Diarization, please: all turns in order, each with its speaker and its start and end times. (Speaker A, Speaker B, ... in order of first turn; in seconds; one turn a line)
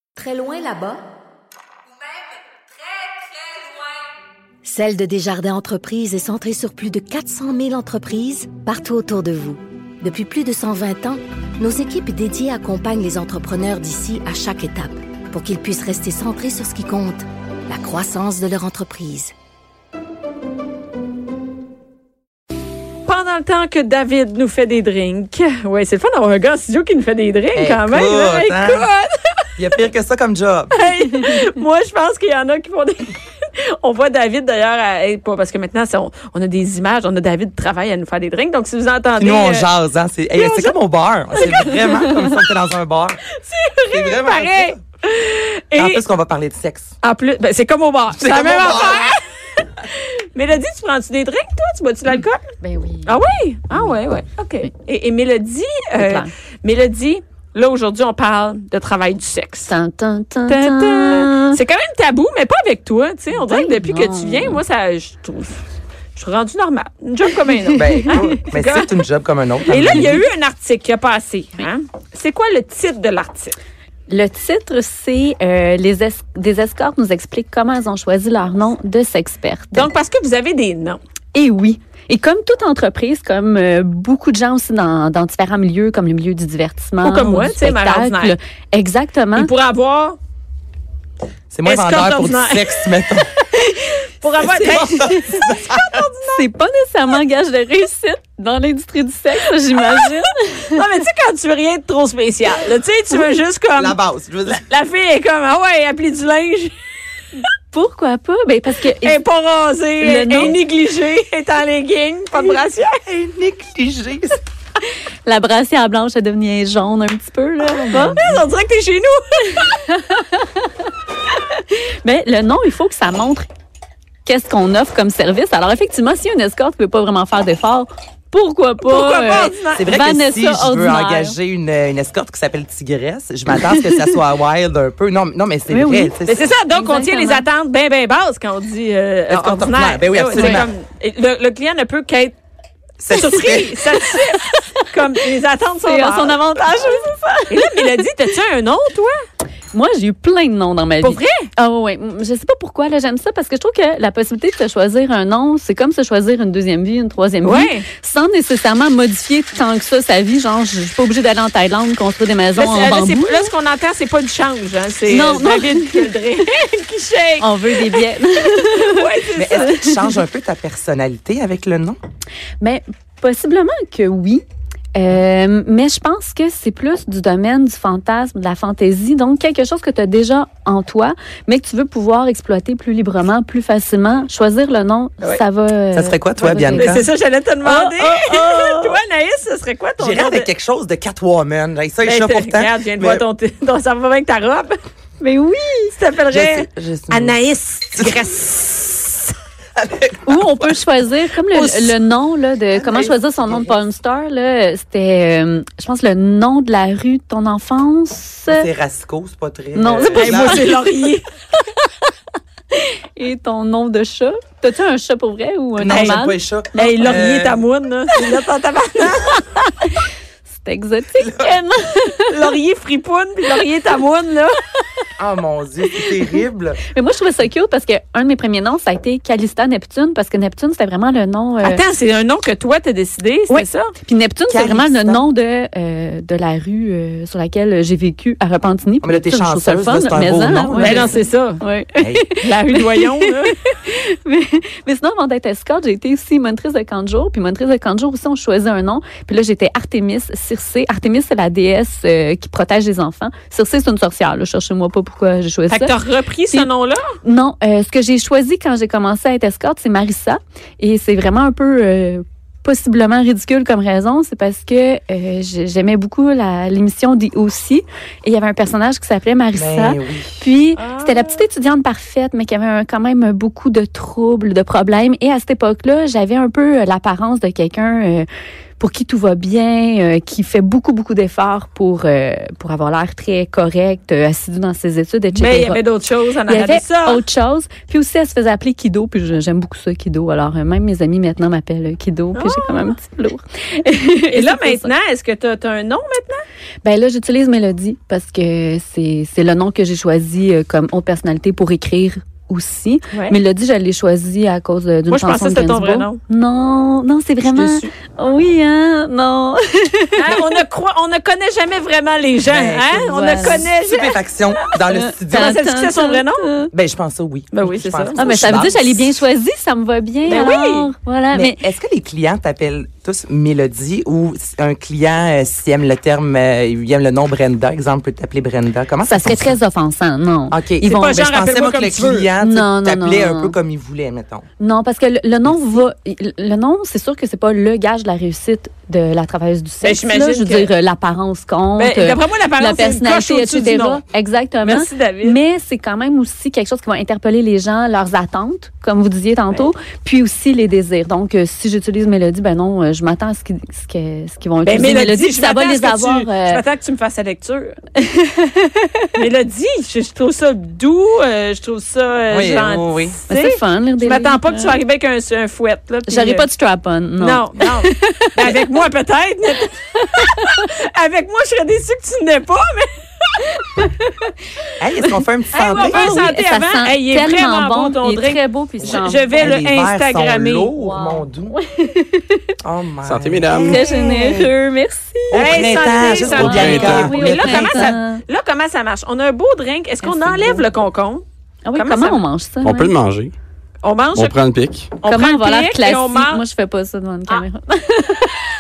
Speaker A: 0.2-1.0
Speaker B: 4.6-19.3
Speaker C: 23.1-29.4
Speaker D: 27.6-28.9
Speaker D: 29.6-30.8
Speaker C: 30.7-39.7
Speaker D: 39.2-43.2
Speaker C: 40.4-40.8
Speaker C: 41.4-42.1
Speaker C: 43.4-46.0
Speaker D: 43.9-44.8
Speaker D: 45.8-46.9
Speaker C: 47.0-52.4
Speaker D: 48.1-49.1
Speaker A: 52.6-53.2
Speaker C: 53.1-59.7
Speaker A: 56.0-56.3
Speaker A: 59.7-61.6
Speaker C: 60.5-65.6
Speaker A: 63.3-64.6
Speaker C: 66.2-68.9
Speaker A: 67.7-68.3
Speaker D: 67.7-70.2
Speaker C: 69.7-73.6
Speaker A: 74.1-79.9
Speaker C: 79.7-81.0
Speaker A: 81.3-89.5
Speaker C: 87.0-88.4
Speaker C: 89.3-90.2
Speaker D: 91.5-93.3
Speaker C: 91.7-92.8
Speaker C: 93.5-96.5
Speaker D: 94.4-96.0
Speaker A: 94.5-95.5
Speaker A: 96.2-100.9
Speaker C: 99.8-104.0
Speaker D: 103.8-104.6
Speaker C: 104.5-106.7
Speaker A: 107.7-109.2
Speaker C: 109.0-113.0
Speaker A: 110.0-110.6
Speaker D: 113.1-114.4
Speaker A: 115.3-118.2
Speaker C: 117.6-119.8
Speaker D: 117.8-118.4
Speaker A: 120.1-120.6
Speaker A: 121.7-123.4
Speaker A: 124.3-131.4
Speaker C: 128.8-129.9
Speaker D: 129.7-136.5
Speaker A: 133.6-134.1
Speaker A: 135.7-136.2
Speaker C: 136.3-142.3
Speaker A: 136.7-137.4
Speaker D: 139.3-140.7
Speaker A: 140.3-140.6
Speaker D: 143.0-143.7
Speaker C: 143.1-146.8
Speaker A: 143.2-144.6
Speaker A: 145.8-148.0
Speaker C: 147.5-149.2
Speaker A: 149.7-163.5
Speaker C: 151.0-151.5
Speaker C: 157.4-157.9
Speaker C: 162.6-168.1
Speaker A: 165.1-166.3
Speaker A: 167.4-170.2
Speaker C: 168.6-169.8
Speaker D: 169.4-172.0
Speaker A: 172.6-174.4
Speaker A: 175.0-187.1
Speaker D: 185.9-187.1
Speaker C: 186.7-190.5
Speaker A: 187.7-188.7
Speaker D: 188.1-188.9
Speaker D: 190.0-193.2
Speaker C: 192.0-194.8
Speaker A: 195.2-195.9
Speaker C: 195.9-199.3
Speaker D: 196.3-197.4
Speaker D: 199.8-200.7
Speaker A: 200.3-208.7
Speaker C: 201.5-202.0
Speaker D: 202.7-203.8
Speaker D: 208.5-210.7
Speaker A: 209.8-210.8
Speaker C: 210.2-211.2
Speaker A: 212.8-217.2
Speaker D: 215.8-217.6
Speaker C: 215.9-216.2
Speaker C: 216.8-219.7
Speaker A: 220.5-222.5
Speaker D: 221.2-221.5
Speaker C: 222.2-224.6
Speaker D: 225.2-226.8
Speaker A: 226.9-231.8
Speaker C: 231.6-233.9
Speaker A: 233.5-256.0
Speaker D: 234.5-235.2
Speaker D: 239.0-241.1
Speaker C: 240.8-241.6
Speaker D: 242.0-242.4
Speaker C: 242.4-243.6
Speaker C: 255.7-257.0
Speaker A: 257.2-278.3
Speaker D: 269.6-270.5
Speaker C: 270.8-271.4
Speaker A: 278.8-285.8
Speaker C: 285.4-287.2
Speaker A: 286.5-294.9
Speaker C: 292.3-293.0
Speaker C: 294.3-296.4
Speaker A: 296.8-310.6
Speaker C: 305.1-306.2
Speaker C: 307.5-307.9
Speaker C: 310.2-314.7
Speaker D: 312.5-315.6
Speaker A: 312.9-314.1
Speaker A: 314.9-316.7
Speaker C: 315.3-316.5
Speaker D: 316.7-319.1
Speaker C: 317.5-318.3
Speaker A: 318.2-321.6
Speaker C: 320.2-320.9
Speaker D: 321.3-329.6
Speaker A: 329.1-331.3
Speaker D: 330.5-334.5
Speaker C: 330.9-332.3
Speaker A: 332.4-333.6
Speaker A: 334.6-356.6
Speaker C: 339.8-340.7
Speaker C: 341.8-344.0
Speaker C: 344.6-345.4
Speaker C: 354.6-357.8
Speaker A: 358.0-359.0
Speaker C: 359.1-366.5
Speaker D: 362.3-363.2
Speaker A: 363.3-364.8
Speaker A: 366.1-368.8
Speaker C: 367.2-373.3
Speaker A: 373.8-374.1
Speaker D: 374.8-376.2
Speaker A: 375.0-379.6
Speaker C: 375.6-380.7
Speaker D: 378.8-381.6
Speaker A: 380.8-382.5
Speaker D: 382.6-384.5
Speaker E: 383.0-383.9
Speaker A: 383.6-388.2
Speaker D: 385.3-387.9
Speaker C: 385.3-391.2
Speaker E: 386.3-387.2
Speaker A: 390.0-390.7
Speaker A: 391.6-392.9
Speaker C: 391.8-392.2
Speaker E: 392.6-393.3
Speaker C: 393.8-394.4
Speaker E: 394.1-395.0
Speaker C: 395.0-396.4
Speaker A: 395.0-398.4